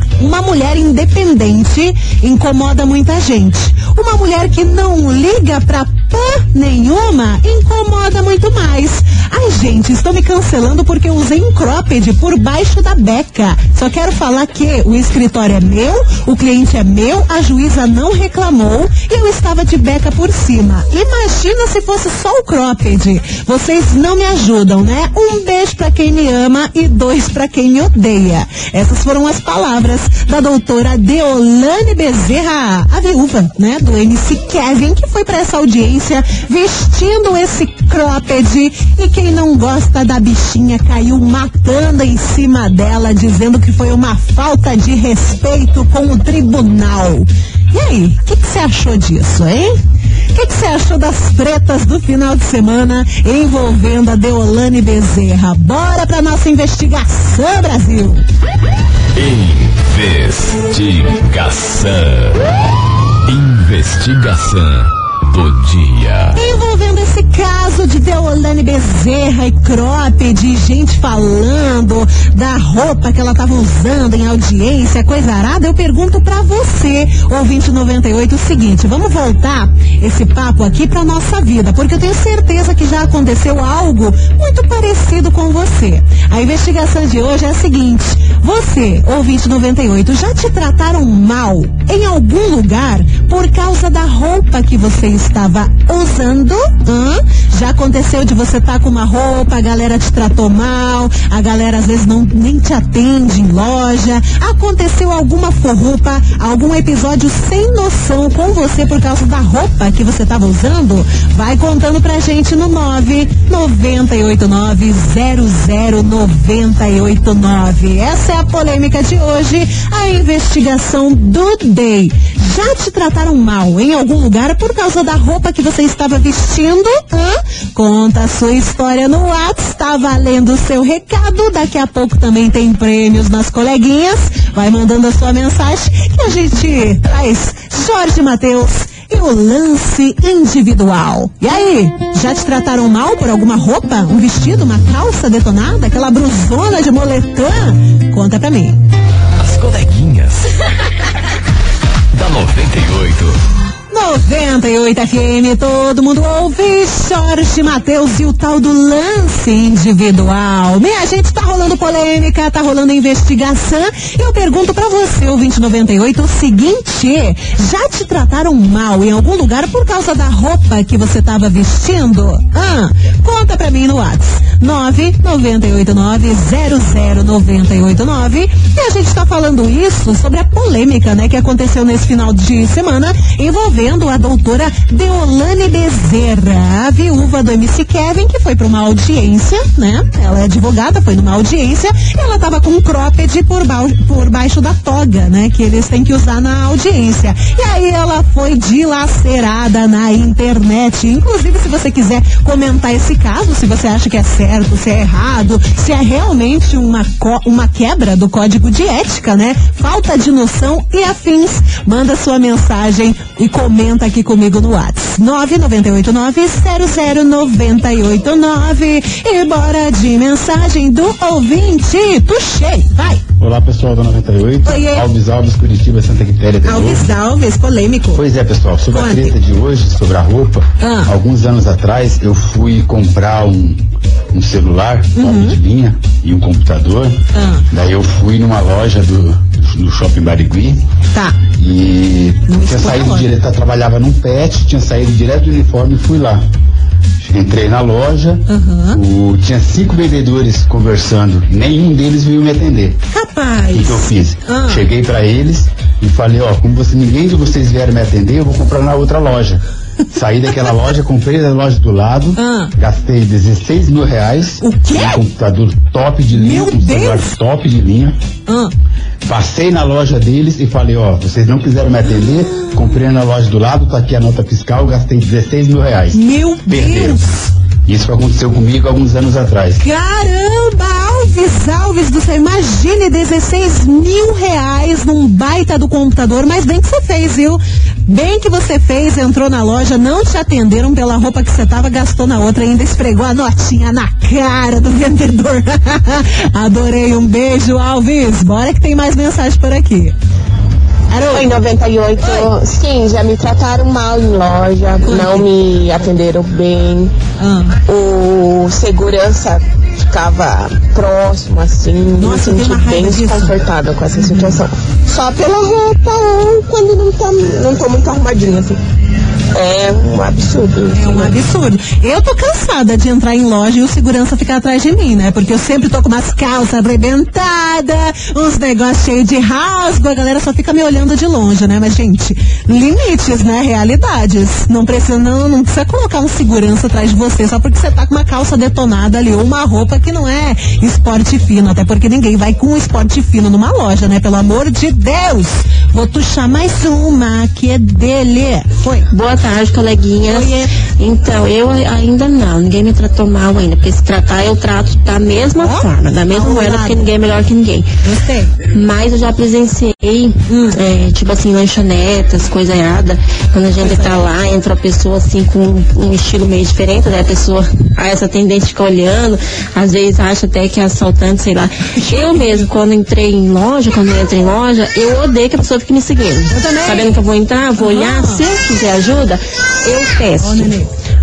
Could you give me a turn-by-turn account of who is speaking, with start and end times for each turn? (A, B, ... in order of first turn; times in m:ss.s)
0:00.2-0:49.8 A
0:50.3-0:58.2 A
0:59.1-1:02.4 B
1:03.2-1:06.4 B
1:06.3-2:28.8 A
2:29.4-2:30.5 B
2:32.1-2:33.4 B
2:33.9-3:43.2 A
3:43.4-3:47.1 C
3:44.6-3:45.1 A
3:46.6-3:48.2 A
3:48.1-3:53.8 C
3:48.9-3:49.4 A
3:50.8-3:51.1 A
3:54.3-4:00.8 C
3:55.2-3:55.6 A
3:57.3-3:57.6 A
4:01.5-4:06.4 C
4:02.5-4:03.3 A
4:07.2-4:13.0 C
4:08.5-4:09.0 A
4:13.1-4:14.9 A
4:13.7-4:28.2 C
4:22.4-4:22.7 A
4:24.6-4:25.2 A
4:26.3-4:27.3 A
4:28.5-4:28.7 A
4:29.2-4:37.2 C
4:32.5-4:33.0 A
4:36.1-4:37.5 A
4:37.8-4:39.8 C
4:39.8-5:00.1 A
5:01.1-5:01.5 A
5:01.2-5:07.1 D
5:02.2-5:02.5 A
5:05.0-5:05.5 A
5:07.4-5:07.8 A
5:07.9-5:18.8 D
5:12.2-5:13.6 A
5:14.2-5:14.6 A
5:19.5-5:21.4 D
5:20.9-5:49.1 A
5:49.1-5:57.9 E
5:50.2-5:50.7 A
5:55.6-5:57.1 A
5:58.0-5:58.5 A
5:58.6-6:20.7 E
6:00.5-6:00.8 A
6:03.8-6:04.3 A
6:11.9-6:12.7 A
6:16.5-6:17.2 A
6:17.8-6:18.4 A
6:20.4-6:20.9 A